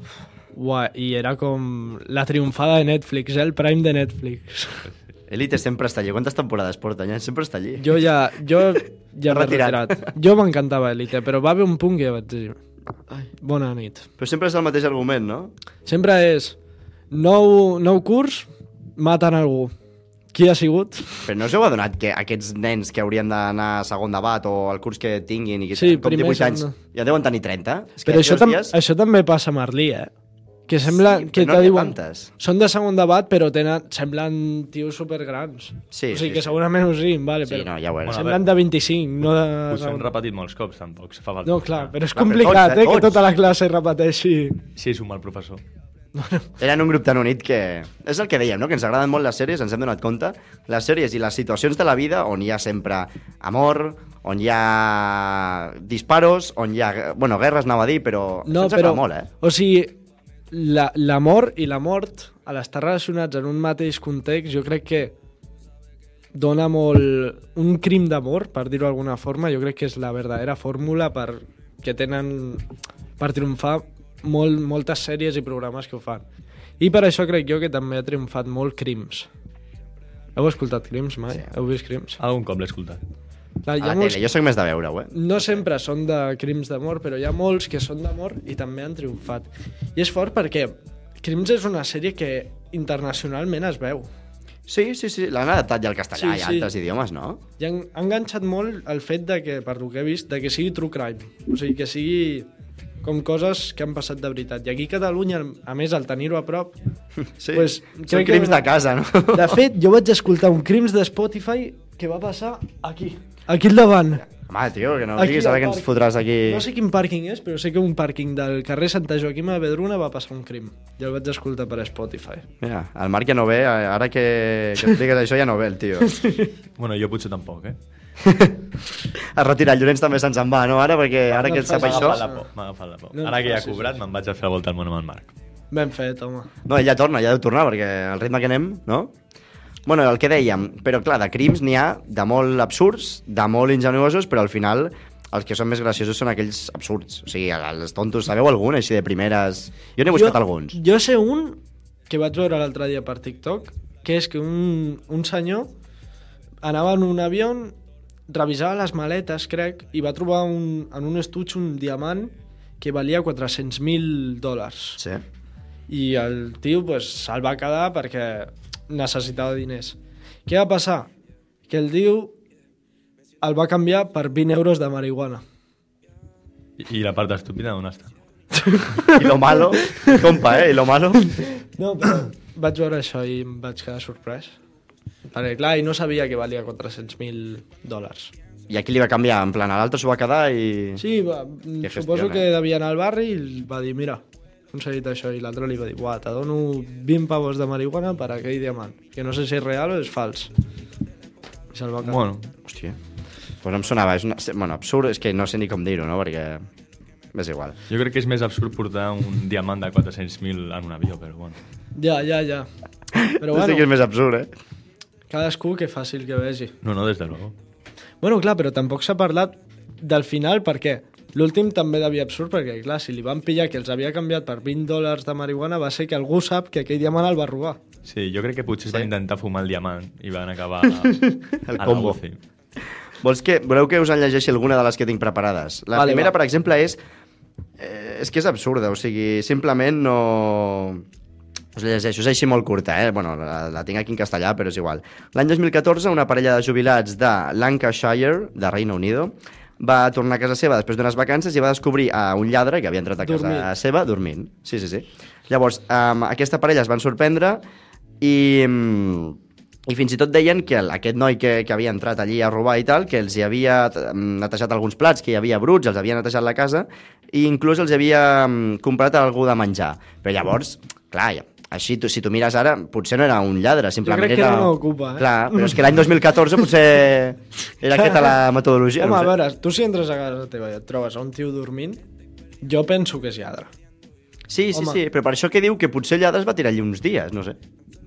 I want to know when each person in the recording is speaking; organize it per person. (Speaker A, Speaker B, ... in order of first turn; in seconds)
Speaker A: 0.5-4.9, 7.8-12.6, 13.2-14.1, 15.9-16.6, 17.1-19.7, 20.3-21.3, 25.8-26.8, 28.1-30.1, 30.7-40.1, 41.5-44.6, 46.1-46.5, 58.5-60.0, 60.5-65.1, 66.3-76.2, 76.8-79.3, 80.3-82.2, 83.6-84.2, 85.1-94.1, 96.2-96.7, 97.6-102.5, 103.0-106.8, 107.5-108.7, 109.3-114.2, 115.2-115.9, 116.5-122.5, 126.0-126.5, 131.3-132.4, 133.1-134.0, 135.7-136.5, 150.1-155.7, 156.6-157.8, 158.3-165.0, 165.9-171.1, 171.7-172.3, 173.4-175.4, 178.6-180.2, 181.4-184.6, 185.3-188.3, 191.0-200.5, 201.7-202.2, 211.9-212.7, 213.4-213.9, 215.3-216.8, 218.2-227.8, 235.9-236.3, 253.2-253.7, 274.0-275.8, 278.0-278.3, 279.0-282.0, 282.6-283.7, 284.7-285.0
Speaker B: 5.3-8.0, 9.3-10.1, 14.2-15.5, 21.3-28.8, 30.8-32.3, 35.9-36.5, 37.5-38.2, 42.1-43.3, 46.6-59.3, 83.8-85.6, 94.7-97.4, 107.2-109.6, 114.3-116.7, 122.6-126.2, 128.2-132.2, 136.7-139.1, 139.9-150.8, 179.1-181.4, 188.7-191.0, 191.8-192.5, 202.7-203.0, 203.6-206.6, 207.3-207.8, 213.1-214.5, 231.5-232.2, 233.2-237.0, 237.8-241.0, 241.8-257.6, 258.2-279.3, 284.5-287.6
Speaker C: 38.0-38.4, 39.7-41.9, 44.8-45.6, 82.2-83.0, 126.8-127.8, 131.5-135.3, 176.8-178.1, 202.0-202.5, 207.9-211.6, 216.8-217.6, 228.1-231.2, 231.8-232.4